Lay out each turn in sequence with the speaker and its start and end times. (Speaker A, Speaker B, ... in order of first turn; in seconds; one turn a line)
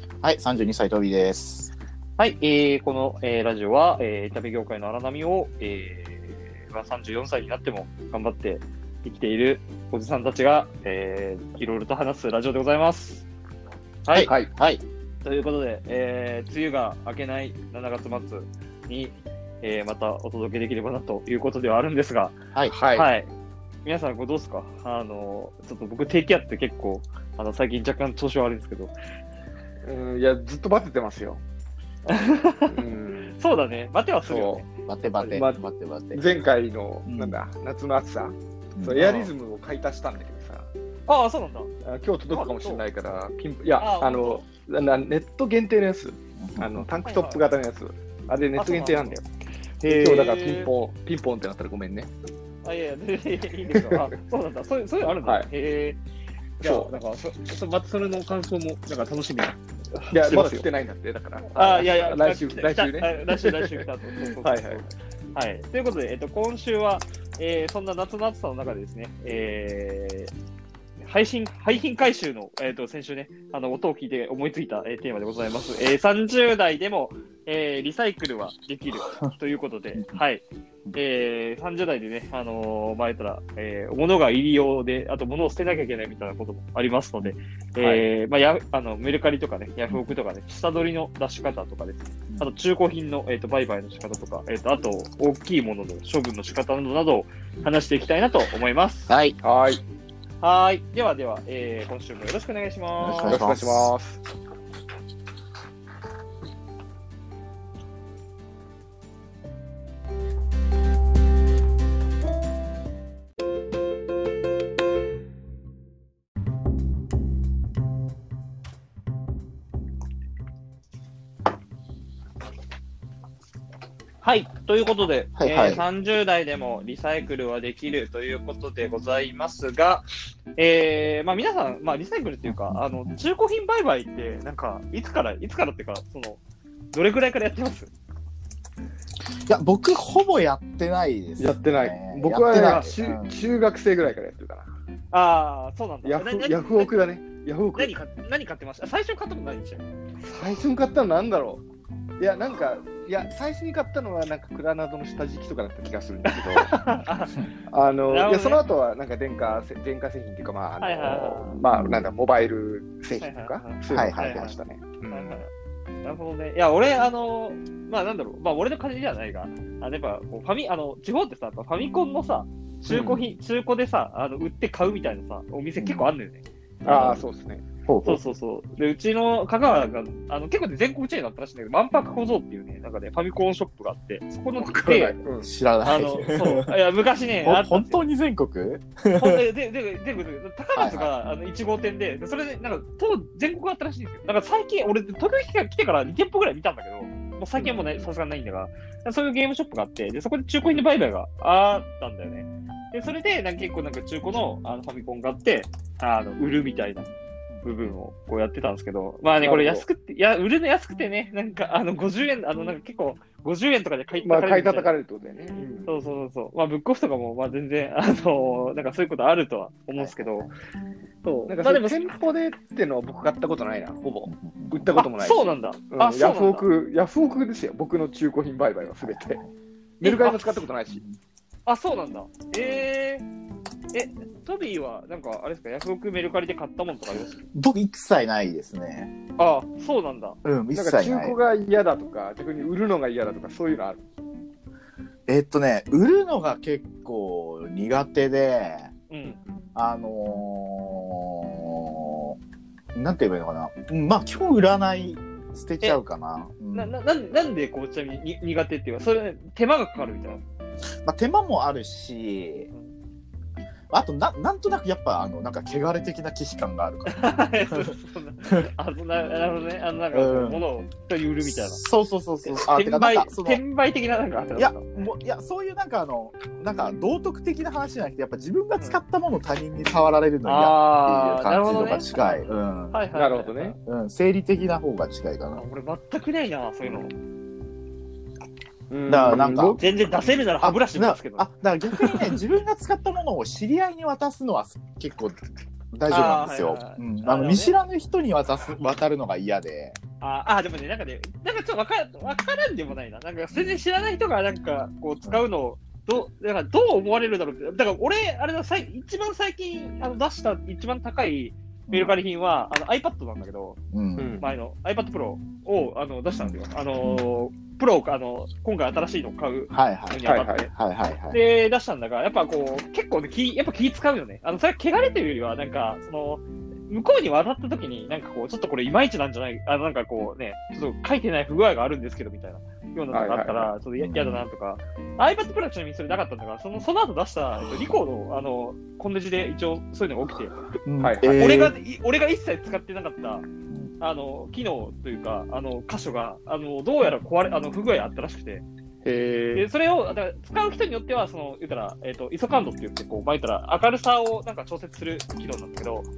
Speaker A: 0.2-1.7
Speaker B: 2.2-13.3
Speaker B: 14.1-14.3
Speaker A: 14.1-14.8
Speaker C: 14.3-14.5
Speaker B: 15.2-22.4
Speaker C: 22.7-23.1
Speaker B: 22.9-23.3
Speaker B: 23.9-28.9
Speaker C: 29.8-31.4
Speaker B: 32.1-34.7
Speaker C: 32.7-33.4
Speaker C: 34.3-34.6
Speaker A: 34.9-36.3
Speaker C: 35.3-35.6
Speaker C: 36.1-40.7
Speaker A: 37.1-37.4
Speaker A: 38.8-39.1
Speaker B: 39.0-39.3
Speaker B: 41.1-41.7
Speaker C: 41.8-49.2
Speaker B: 42.3-42.9
Speaker B: 43.8-44.5
Speaker A: 46.4-46.9
Speaker B: 47.0-47.4
Speaker B: 48.6-49.1
Speaker C: 49.8-52.1
Speaker B: 49.9-50.7
Speaker A: 49.9-50.2
Speaker B: 52.6-56.0
Speaker C: 53.7-54.0
Speaker C: 56.6-56.9
Speaker B: 56.6-60.7
Speaker C: 60.1-63.9
Speaker B: 61.5-70.3
Speaker C: 64.4-64.8
Speaker B: 71.0-99.1
Speaker C: 87.8-88.0
Speaker A: 99.1-99.4
Speaker C: 99.4-99.8
Speaker B: 100.4-103.4
Speaker A: 103.0-103.9
Speaker C: 103.3-104.2
Speaker B: 124.2-136.4
Speaker A: 125.4-125.8
Speaker A: 132.5-133.2
Speaker B: 136.9-137.9
Speaker A: 139.5-143.3
Speaker C: 141.4-144.7
Speaker B: 142.5-142.9
Speaker B: 145.1-147.0
Speaker C: 146.0-147.9
Speaker B: 147.8-149.9
Speaker C: 150.2-151.6
Speaker C: 152.2-156.7
Speaker B: 156.3-157.5
Speaker C: 157.7-165.4
Speaker B: 158.1-158.6
Speaker B: 160.8-161.6
Speaker A: 161.7-162.1
Speaker B: 163.2-164.6
Speaker A: 163.9-164.5
Speaker B: 165.1-165.5
Speaker B: 166.0-176.4
Speaker C: 172.9-173.2
Speaker A: 175.8-176.1
Speaker C: 176.8-177.6
Speaker A: 176.9-177.2
Speaker A: 177.9-178.3
Speaker B: 178.1-185.2
Speaker A: 184.7-186.8
Speaker C: 185.2-185.5
Speaker B: 185.8-188.0
Speaker A: 187.4-189.4
Speaker B: 189.1-207.1
Speaker A: 190.8-191.1
Speaker C: 197.6-198.1
Speaker B: 207.6-214.9
Speaker C: 209.4-209.9
Speaker C: 214.2-215.9
Speaker B: 215.9-220.5
Speaker A: 220.0-220.5
Speaker B: 221.2-222.0
Speaker C: 221.5-229.4
Speaker A: 224.3-224.9
Speaker B: 225.0-226.7
Speaker A: 229.0-229.5
Speaker C: 230.0-231.0
Speaker B: 230.0-230.6
Speaker B: 231.7-233.3
Speaker B: 233.9-237.4
Speaker A: 237.5-239.1
Speaker C: 239.4-239.7
Speaker B: 239.6-240.4
Speaker A: 240.4-241.4
Speaker C: 240.7-244.0
Speaker A: 245.3-248.9
Speaker B: 249.1-249.4
Speaker A: 249.8-252.4
Speaker A: 252.9-256.9
Speaker B: 256.7-260.4
Speaker A: 261.0-262.7
Speaker A: 263.9-267.9
Speaker B: 267.1-271.8
Speaker A: 270.1-270.6
Speaker A: 271.4-273.6
Speaker B: 272.4-274.8
Speaker A: 274.6-283.0
Speaker B: 280.4-283.8
Speaker C: 283.1-283.8
Speaker A: 283.9-285.6
Speaker B: 285.6-287.1
Speaker C: 288.9-289.8
Speaker A: 289.1-289.8
Speaker B: 289.7-292.4
Speaker A: 290.6-295.4
Speaker A: 295.9-300.0
Speaker B: 296.1-297.8
Speaker B: 300.2-313.8
Speaker A: 311.9-312.2
Speaker A: 313.9-314.4
Speaker C: 314.2-314.5
Speaker B: 314.4-320.7
Speaker A: 316.3-317.2
Speaker A: 319.7-321.4
Speaker C: 320.2-320.7
Speaker B: 321.3-340.6
Speaker C: 333.1-333.7
Speaker A: 334.0-334.4
Speaker A: 340.8-341.7
Speaker C: 341.0-341.7
Speaker B: 341.2-343.5
Speaker B: 344.0-348.6
Speaker C: 349.0-349.7
Speaker B: 349.6-356.1